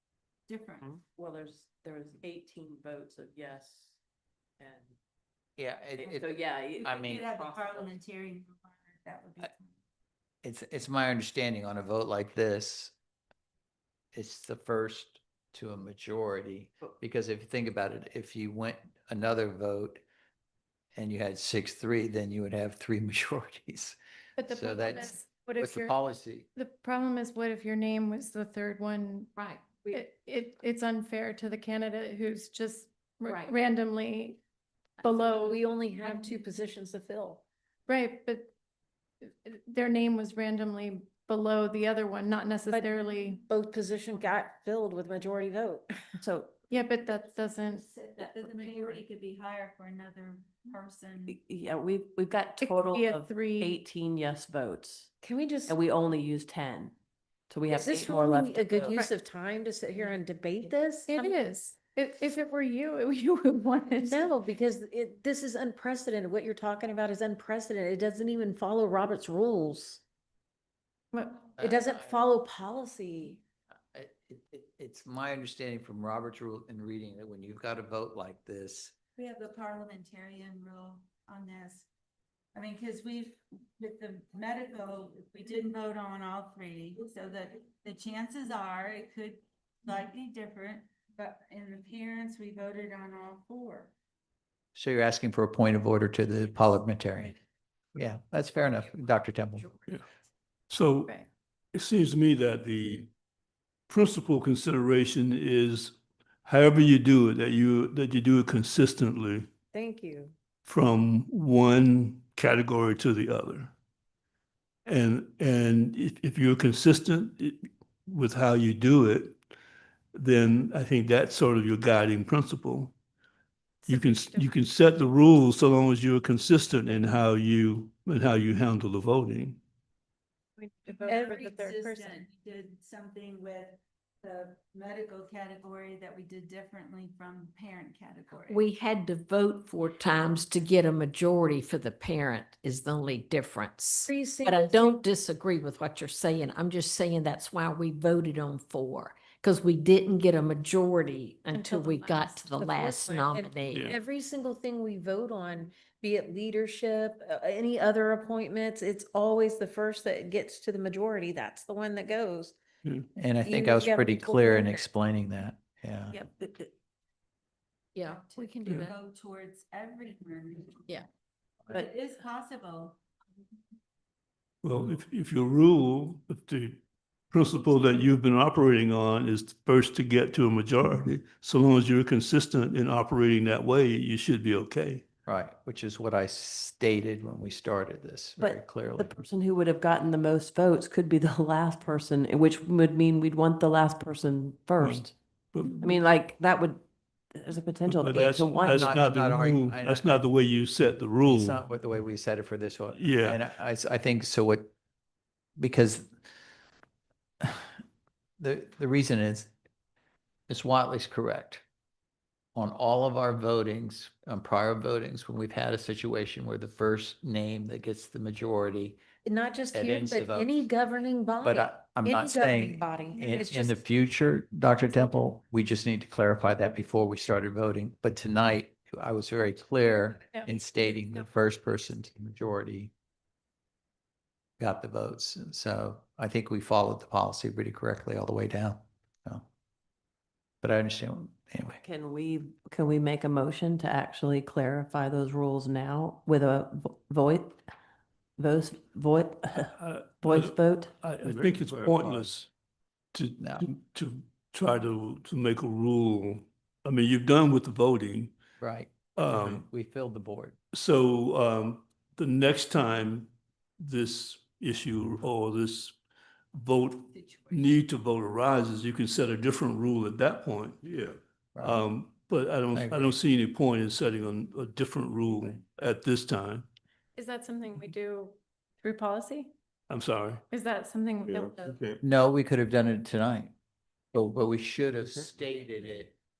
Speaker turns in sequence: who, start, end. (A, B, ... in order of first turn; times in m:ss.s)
0:00.5-0:01.0 A
0:00.8-0:04.0 B
0:04.6-0:04.9 B
0:05.6-0:07.2 C
0:06.0-0:08.0 B
0:06.7-0:09.8 A
0:10.4-0:12.9 C
0:14.1-0:20.0 C
0:20.9-0:26.5 C
0:24.4-0:26.0 D
0:26.5-0:29.3 D
0:29.4-0:29.6 E
0:29.8-0:34.4 D
0:35.0-0:35.6 D
0:35.1-0:37.4 F
0:37.9-0:38.5 D
0:39.2-0:43.4 D
0:43.4-0:46.1 F
0:46.2-0:46.5 B
0:46.7-0:47.8 D
0:47.6-0:51.4 A
0:48.2-0:49.0 B
0:51.2-0:55.1 B
0:52.6-0:53.8 D
0:55.2-0:55.8 F
0:55.6-0:56.9 B
0:57.5-0:59.0 B
0:57.7-1:01.3 F
1:01.1-1:04.3 D
1:04.0-1:10.0 F
1:11.1-1:11.4 D
1:11.6-1:12.2 C
1:11.6-1:13.4 F
1:13.9-1:18.9 C
1:19.2-1:21.9 A
1:22.5-1:33.9 A
1:34.7-1:37.4 C
1:37.9-1:39.7 C
1:40.7-1:41.1 G
1:41.7-1:43.1 G
1:43.9-1:49.5 G
1:49.7-1:50.3 F
1:50.6-1:53.7 G
1:54.8-1:59.4 G
2:00.1-2:02.9 G
2:03.8-2:04.5 D
2:03.9-2:09.6 G
2:10.6-2:11.9 D
2:11.0-2:18.6 A
2:11.1-2:12.1 F
2:18.5-2:33.9 E
2:24.0-2:25.0 F
2:31.5-2:32.4 D
2:32.5-2:42.5 F
2:33.7-2:34.0 G
2:43.2-2:46.2 C
2:43.4-2:44.8 F
2:46.1-2:46.7 B
2:48.0-2:48.9 E
2:48.0-2:50.9 A
2:51.7-2:53.0 A
2:54.6-3:05.0 G
3:05.2-3:09.1 C
3:08.4-3:15.1 B
3:14.8-3:15.9 G
3:15.8-3:16.8 B
3:17.3-3:19.0 B
3:17.9-3:21.6 G
3:18.2-3:20.2 C
3:21.2-3:24.7 C
3:22.9-3:23.4 G
3:25.6-3:26.1 C
3:27.4-3:27.7 C
3:28.4-3:29.5 C
3:30.5-3:31.6 C
3:32.5-3:39.0 C
3:39.2-3:43.8 F
3:39.7-3:40.6 C
3:41.4-3:52.9 C
3:54.6-3:59.4 C
4:00.6-4:01.8 C
4:01.8-4:07.6 B
4:08.4-4:11.1 B
4:09.7-4:12.5 G
4:11.2-4:12.4 H
4:13.1-4:18.3 G
4:13.4-4:13.6 C
4:18.6-4:20.6 C
4:19.2-4:19.6 G
4:19.3-4:19.6 H
4:20.7-4:26.0 G
4:26.5-4:30.8 G
4:27.1-4:27.8 A
4:30.8-4:31.2 H
4:31.5-4:31.9 C
4:31.6-4:36.6 G
4:32.7-4:33.1 C
4:37.1-4:39.5 D
4:39.9-4:40.4 G
4:40.5-4:41.8 D
4:41.2-4:42.0 H
4:42.0-4:43.5 C
4:44.1-4:46.1 C
4:45.0-4:45.3 H